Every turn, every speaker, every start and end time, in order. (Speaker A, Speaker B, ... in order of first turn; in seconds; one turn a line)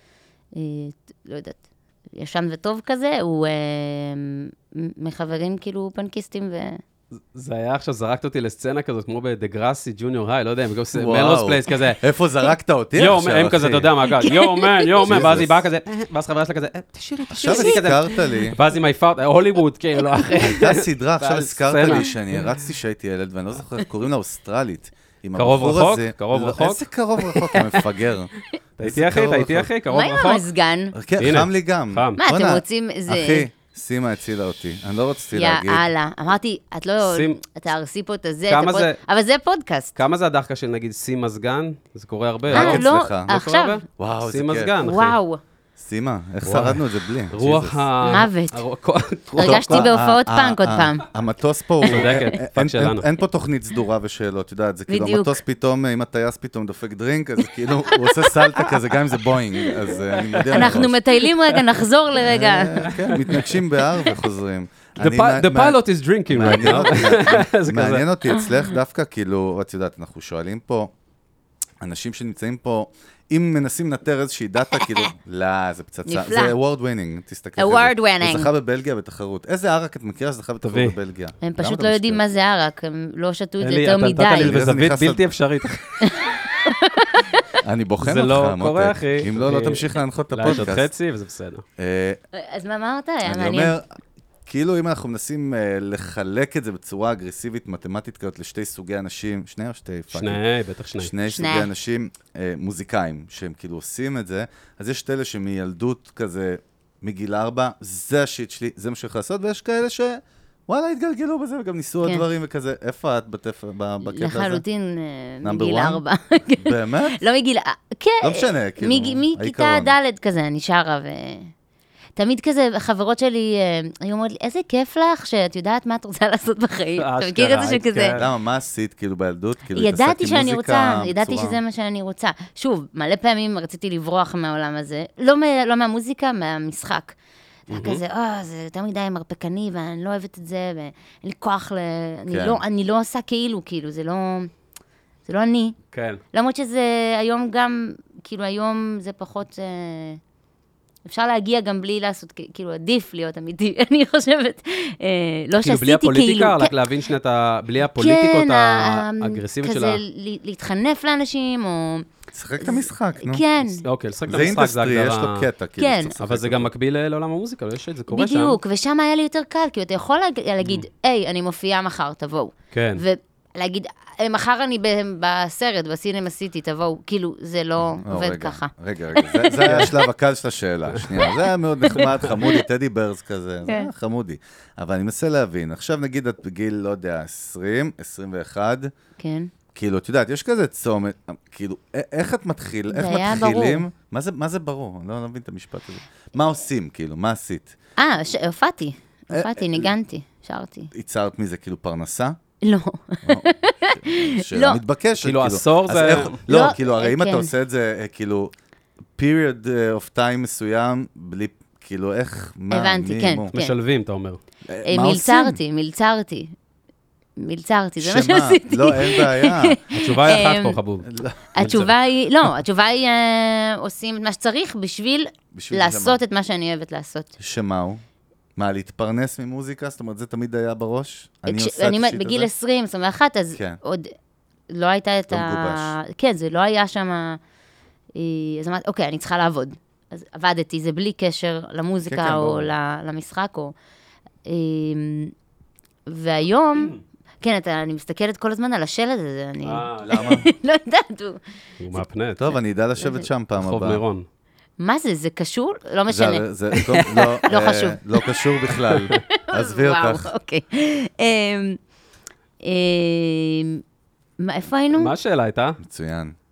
Speaker A: 0.5-1.6
Speaker A: 2.1-6.8
Speaker B: 7.3-12.0
Speaker C: 10.9-13.9
Speaker B: 13.0-22.4
Speaker A: 14.2-15.1
Speaker C: 15.0-15.6
Speaker C: 17.3-18.6
Speaker A: 17.4-17.7
Speaker C: 20.4-29.7
Speaker B: 25.4-27.8
Speaker B: 28.8-30.4
Speaker A: 29.9-30.9
Speaker C: 30.9-35.9
Speaker B: 31.2-32.2
Speaker A: 32.2-33.5
Speaker A: 35.4-39.9
Speaker B: 37.0-37.4
Speaker B: 38.5-39.0
Speaker B: 40.0-45.2
Speaker C: 42.5-43.4
Speaker A: 42.5-43.8
Speaker C: 44.0-44.8
Speaker A: 44.8-45.4
Speaker C: 45.8-47.8
Speaker B: 46.4-49.9
Speaker A: 48.0-48.6
Speaker C: 49.3-61.0
Speaker A: 49.4-51.1
Speaker A: 51.8-52.3
Speaker B: 51.9-53.1
Speaker A: 54.9-55.4
Speaker B: 60.1-60.9
Speaker A: 60.5-62.9
Speaker C: 62.2-70.9
Speaker B: 62.9-63.6
Speaker B: 65.0-68.0
Speaker C: 71.8-82.2
Speaker A: 74.8-75.1
Speaker A: 76.1-76.6
Speaker A: 77.6-78.5
Speaker B: 80.6-81.0
Speaker A: 81.4-84.5
Speaker B: 83.6-86.2
Speaker C: 84.4-85.2
Speaker A: 86.0-87.3
Speaker C: 87.6-90.9
Speaker B: 88.0-91.7
Speaker C: 91.8-92.2
Speaker A: 92.3-93.8
Speaker C: 93.2-93.9
Speaker C: 94.5-100.4
Speaker B: 100.1-101.1
Speaker C: 101.0-114.6
Speaker A: 101.3-101.7
Speaker A: 114.0-121.5
Speaker C: 115.4-116.0
Speaker C: 116.6-117.2
Speaker C: 118.2-119.9
Speaker A: 122.2-128.2
Speaker B: 127.0-128.3
Speaker C: 128.1-131.6
Speaker A: 129.7-137.2
Speaker A: 137.7-144.5
Speaker B: 137.7-138.0
Speaker C: 142.3-142.6
Speaker A: 145.3-145.8
Speaker B: 145.9-146.2
Speaker A: 146.3-150.2
Speaker A: 151.1-156.8
Speaker B: 155.6-160.0
Speaker A: 157.9-162.1
Speaker C: 162.3-163.4
Speaker A: 162.6-163.8
Speaker B: 163.8-165.5
Speaker C: 164.3-166.7
Speaker A: 165.8-166.1
Speaker B: 166.2-168.6
Speaker A: 168.1-179.9
Speaker B: 172.7-173.0
Speaker C: 178.0-188.9
Speaker A: 189.2-189.5
Speaker C: 189.7-197.7
Speaker A: 192.9-193.8
Speaker A: 198.0-200.9
Speaker C: 199.3-199.9
Speaker C: 200.9-202.4
Speaker A: 202.6-204.8
Speaker C: 203.2-208.5
Speaker B: 205.2-206.4
Speaker A: 206.5-207.5
Speaker C: 209.2-213.5
Speaker A: 212.7-213.7
Speaker B: 213.5-214.4
Speaker C: 214.7-215.6
Speaker A: 214.9-216.5
Speaker A: 217.4-220.8
Speaker C: 218.0-220.4
Speaker B: 219.9-221.1
Speaker C: 221.0-221.9
Speaker A: 221.6-227.3
Speaker C: 225.5-226.2
Speaker C: 227.4-228.0
Speaker C: 228.6-232.5
Speaker A: 231.5-234.1
Speaker C: 233.5-233.8
Speaker A: 234.7-237.4
Speaker C: 235.3-235.9
Speaker A: 238.2-243.7
Speaker C: 242.1-242.7
Speaker A: 244.5-245.3
Speaker A: 246.1-251.4
Speaker B: 249.6-250.3
Speaker C: 250.1-250.5
Speaker B: 251.8-252.5
Speaker C: 252.4-254.0
Speaker B: 253.6-254.2
Speaker A: 254.8-258.0
Speaker C: 256.1-260.3
Speaker B: 258.9-259.2
Speaker A: 259.3-261.8
Speaker A: 262.6-263.8
Speaker A: 264.4-265.1
Speaker B: 264.9-265.8
Speaker C: 265.8-266.4